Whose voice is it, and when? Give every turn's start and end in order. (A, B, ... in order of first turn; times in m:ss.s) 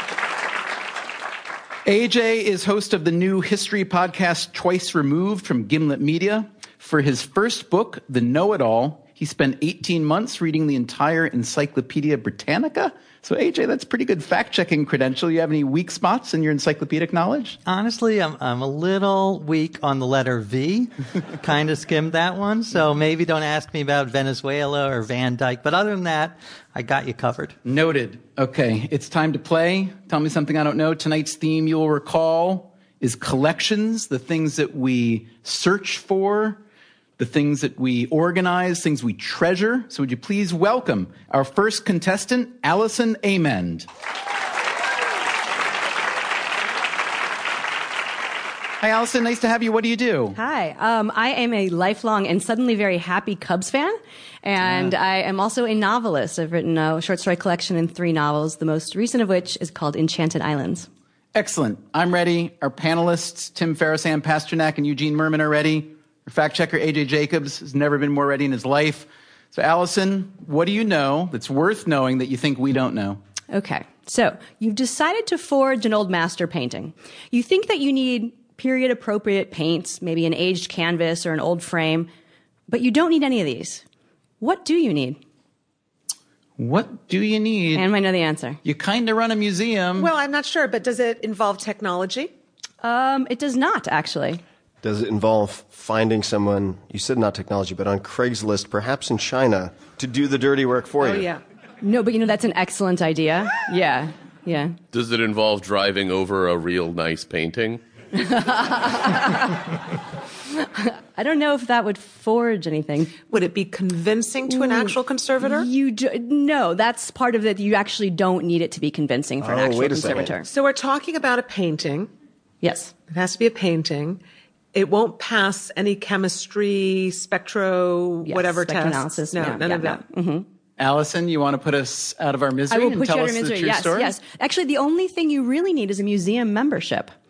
0:01.8-0:17.6 A
0:17.6-0:27.5 B
0:27.6-0:36.6 A
0:37.2-0:43.9 A
0:48.8-0:50.4 A
0:50.3-1:00.9 C
1:01.3-1:13.2 A
1:13.5-1:22.1 C
1:22.7-1:23.8 C
1:24.4-1:25.2 C
1:26.6-1:27.9 A
1:27.7-1:28.6 C
1:28.6-1:30.1 A
1:30.0-1:32.3 D
1:32.8-1:34.4 C
1:34.8-1:41.3 E
1:41.0-1:41.4 D
1:41.8-1:44.8 C
1:44.9-1:47.8 F
1:48.1-1:49.7 C
1:50.5-1:53.2 C
1:53.3-1:55.7 D
1:54.5-2:00.5 C
1:59.4-2:00.3 E
2:00.4-2:02.1 D
2:02.6-2:02.9 C
2:03.0-2:04.2 D
2:04.7-2:10.0 D
2:08.2-2:10.4 C
2:10.8-2:14.1 A
2:12.7-2:17.1 C